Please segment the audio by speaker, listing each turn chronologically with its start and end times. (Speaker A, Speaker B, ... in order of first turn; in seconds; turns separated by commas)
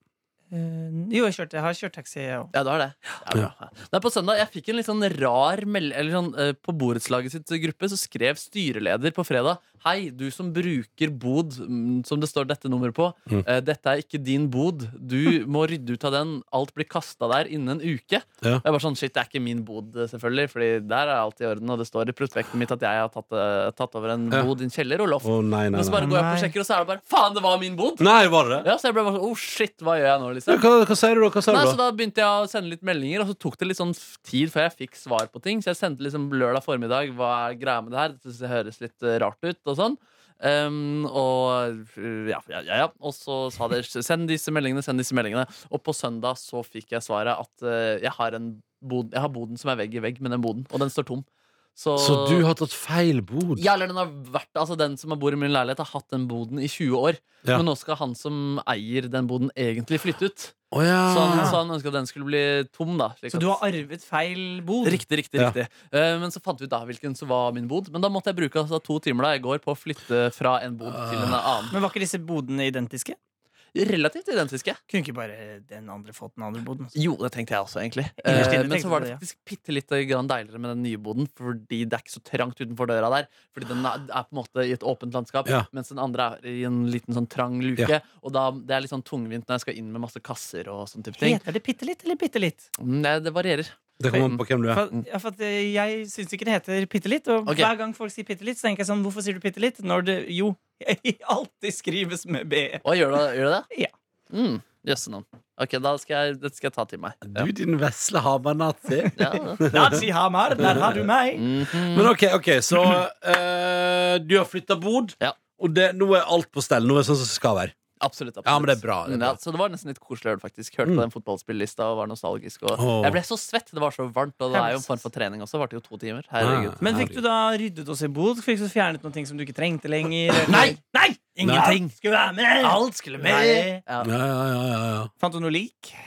Speaker A: 0.5-2.5, Speaker B: 2.5-28.1, Speaker C: 25.2-26.0, Speaker A: 26.0-26.5, Speaker C: 28.0-28.7, Speaker B: 28.6-30.6, Speaker C: 30.5-31.8, Speaker B: 31.5-52.4, Speaker C: 52.0-53.6, Speaker B: 53.5-63.6, Speaker C: 60.7-61.6, Speaker A: 61.3-61.6, Speaker A: 63.3-65.0, Speaker B: 64.8-71.7, Speaker C: 70.9-71.7, Speaker A: 71.7-73.2, Speaker B: 73.7-74.8, Speaker A: 74.9-76.9, Speaker B: 76.9-91.4, Speaker A: 78.2-79.2, Speaker C: 78.3-78.5, Speaker A: 91.2-92.7, Speaker B: 92.8-95.0, Speaker C: 94.0-94.8, Speaker A: 94.7-102.8, Speaker B: 97.5-97.7, Speaker B: 102.8-103.7, Speaker B: 104.3-107.5, Speaker C: 107.2-110.0, Speaker B: 109.1-109.7, Speaker A: 109.6-111.4, Speaker C: 110.6-111.0, Speaker B: 111.3-112.1, Speaker C: 111.8-117.7, Speaker B: 118.0-126.8, Speaker C: 118.4-119.4, Speaker C: 122.7-123.2, Speaker A: 124.5-124.9, Speaker C: 126.4-127.2, Speaker A: 126.8-133.8, Speaker B: 130.4-130.8, Speaker B: 131.3-131.9, Speaker C: 131.4-131.8, Speaker B: 132.6-134.1, Speaker C: 134.0-135.1, Speaker A: 135.2-136.0